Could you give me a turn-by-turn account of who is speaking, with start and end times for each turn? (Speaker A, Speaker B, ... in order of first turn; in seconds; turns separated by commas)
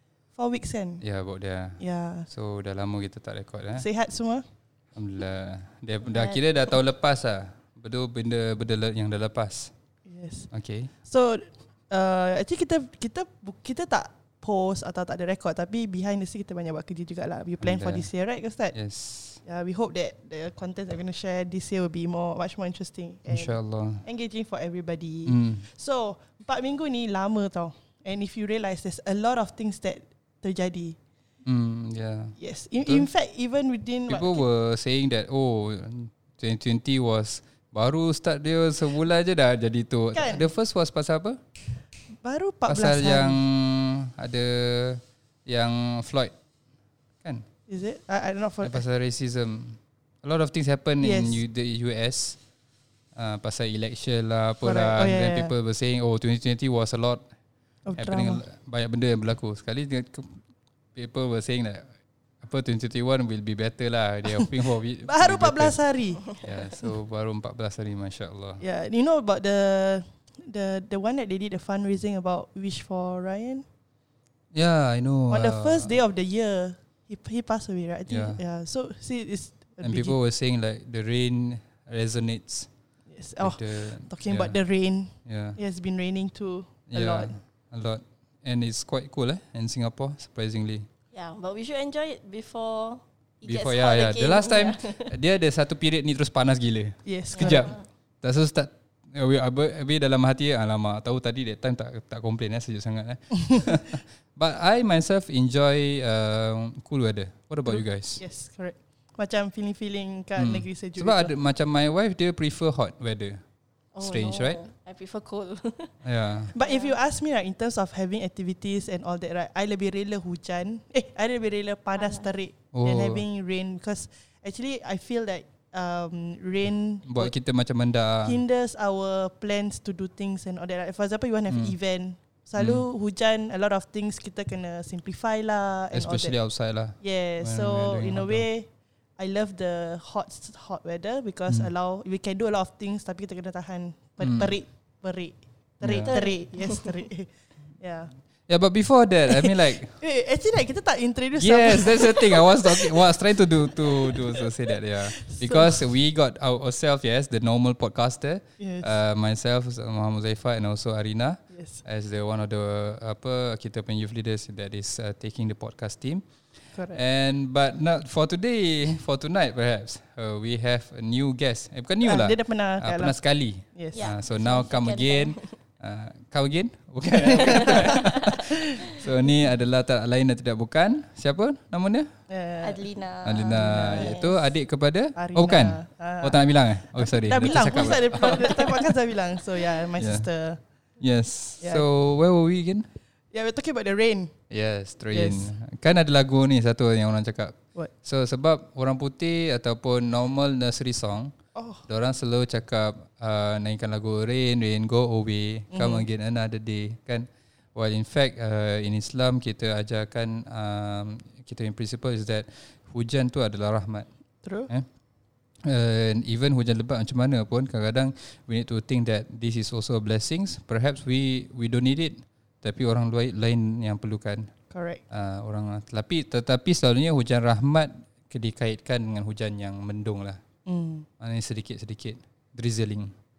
Speaker A: 0.3-1.0, Speaker B: 1.0-3.9, Speaker A: 1.8-2.3, Speaker A: 3.8-4.4, Speaker B: 4.9-9.7, Speaker C: 6.1-6.4, Speaker A: 10.1-10.5, Speaker B: 10.5-10.9, Speaker A: 11.0-18.8, Speaker B: 17.6-18.1, Speaker B: 18.7-19.4, Speaker A: 19.4-31.0, Speaker B: 23.3-24.0, Speaker B: 25.2-25.6, Speaker B: 31.4-33.1, Speaker A: 32.4-34.5, Speaker B: 34.1-41.4, Speaker A: 40.1-40.5, Speaker A: 42.1-43.4, Speaker B: 42.7-46.3, Speaker A: 47.7-48.8, Speaker B: 48.6-52.4, Speaker A: 51.0-51.4, Speaker B: 53.1-57.2, Speaker A: 54.6-55.5, Speaker A: 57.9-58.4, Speaker B: 58.0-60.4, Speaker B: 60.9-61.9, Speaker B: 62.4-65.8, Speaker A: 65.0-66.3, Speaker B: 66.3-68.6, Speaker A: 68.6-73.6, Speaker B: 74.5-75.9, Speaker A: 75.3-80.2, Speaker B: 78.1-78.4, Speaker B: 79.8-82.7, Speaker A: 83.1-87.3, Speaker B: 83.4-84.6, Speaker B: 85.2-85.6, Speaker B: 86.9-90.9, Speaker C: 91.1-95.1, Speaker B: 93.4-108.2, Speaker A: 97.0-97.7, Speaker C: 97.3-97.8, Speaker A: 107.7-111.3, Speaker B: 110.3-113.4, Speaker C: 113.9-115.9, Speaker B: 114.0-114.6, Speaker B: 116.0-116.5, Speaker A: 116.5-127.3, Speaker C: 116.5-117.0, Speaker C: 122.0-122.2, Speaker B: 122.7-123.2, Speaker B: 127.0-128.4, Speaker A: 128.2-136.3, Speaker B: 131.5-131.7, Speaker B: 132.6-132.8, Speaker B: 135.9-138.4, Speaker A: 137.0-147.3, Speaker B: 144.2-144.5, Speaker B: 145.8-146.1, Speaker C: 146.1-147.0, Speaker A: 147.8-148.1, Speaker B: 148.5-150.0, Speaker A: 149.3-153.1, Speaker B: 151.3-182.1, Speaker A: 153.8-155.9, Speaker A: 158.6-158.9, Speaker A: 161.5-161.8, Speaker A: 166.7-167.0, Speaker A: 172.0-173.2, Speaker A: 173.7-174.1, Speaker C: 173.9-175.5, Speaker A: 177.3-178.6, Speaker C: 177.4-178.4, Speaker A: 182.3-182.8, Speaker C: 182.6-184.3, Speaker B: 183.2-188.8, Speaker A: 183.4-184.3, Speaker A: 185.2-186.4, Speaker A: 186.9-190.6, Speaker C: 188.2-188.8, Speaker B: 190.0-190.2, Speaker B: 191.0-192.9, Speaker A: 193.3-194.3, Speaker B: 194.5-201.3, Speaker A: 195.1-195.5, Speaker A: 201.5-201.8, Speaker B: 201.9-214.1, Speaker A: 205.7-206.1, Speaker A: 214.4-214.7, Speaker B: 215.6-224.5, Speaker A: 224.7-225.0, Speaker B: 225.1-230.4, Speaker A: 230.7-231.1, Speaker B: 231.2-233.1